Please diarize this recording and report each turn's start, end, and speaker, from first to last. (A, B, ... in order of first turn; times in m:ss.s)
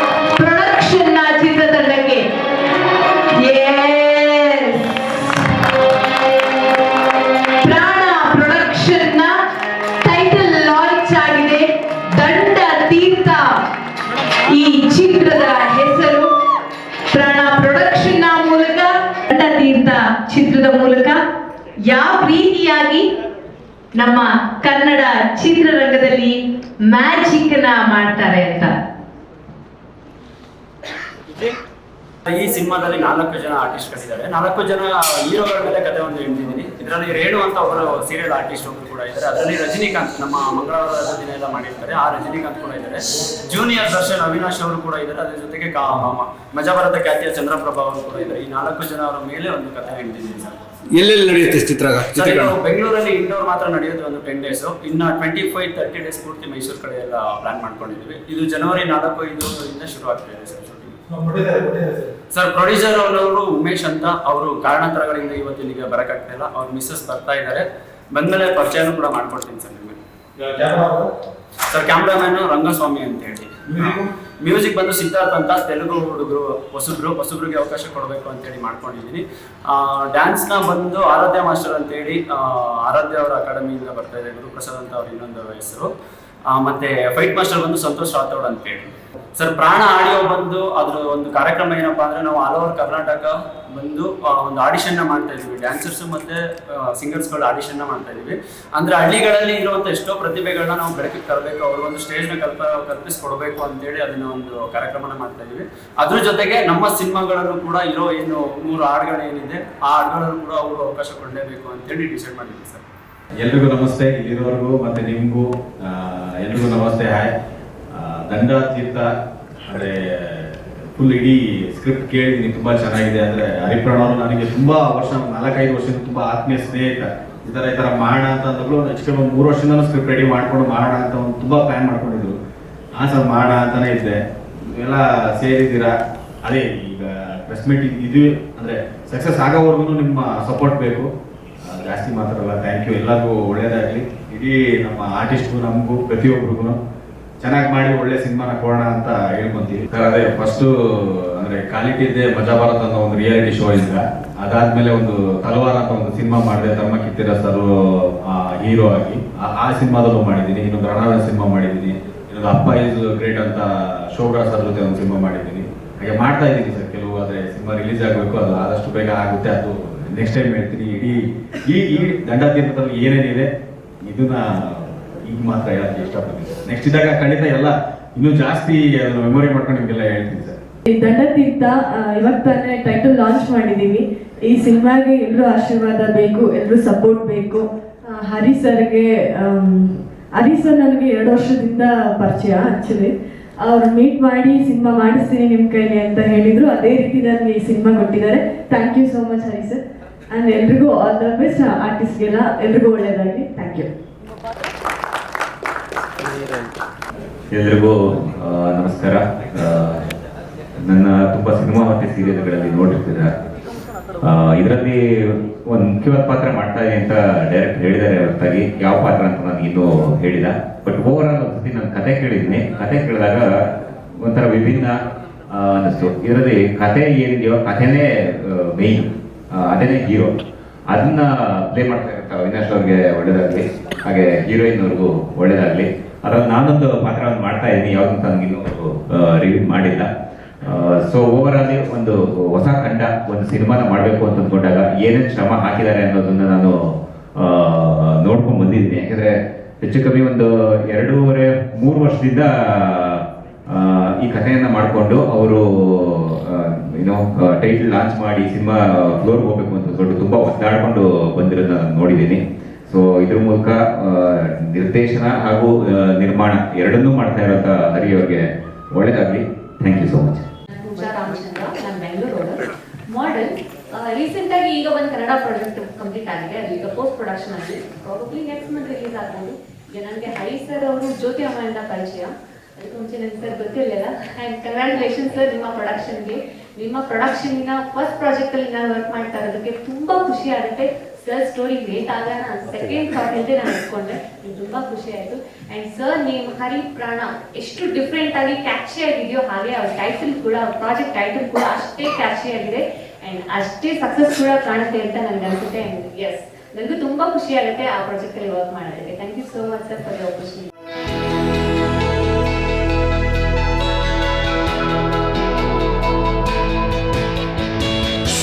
0:00.4-0:02.3 A
0:03.4-0:05.1 A
0:07.6-0:09.3 A
0:10.0-0:13.6 A
0:14.5-0:16.3 A
0:17.1-0:21.2 A
0:21.8-0:23.1 A
0:24.0-0:28.7 A
0:32.3-0:50.6 B
0:50.9-0:52.6 C
0:52.1-1:01.0 B
1:01.1-1:02.1 C
1:02.3-1:10.0 B
1:10.4-1:11.1 C
1:11.7-1:25.9 B
1:13.7-1:14.1 C
1:26.5-1:52.9 B
1:53.4-1:57.3 D
1:57.9-1:59.1 D
1:59.6-2:12.4 D
2:13.0-2:14.2 D
2:14.8-2:15.9 D
2:16.4-2:21.1 D
2:21.6-2:26.8 D
2:27.4-2:53.5 D
2:54.1-3:00.6 D
3:00.9-3:19.8 E
3:20.3-3:23.9 E
3:27.5-3:30.0 F
3:30.8-3:33.3 F
3:34.2-3:45.0 F
3:45.5-4:00.1 F
4:00.6-4:30.4 F
4:30.8-5:10.7 G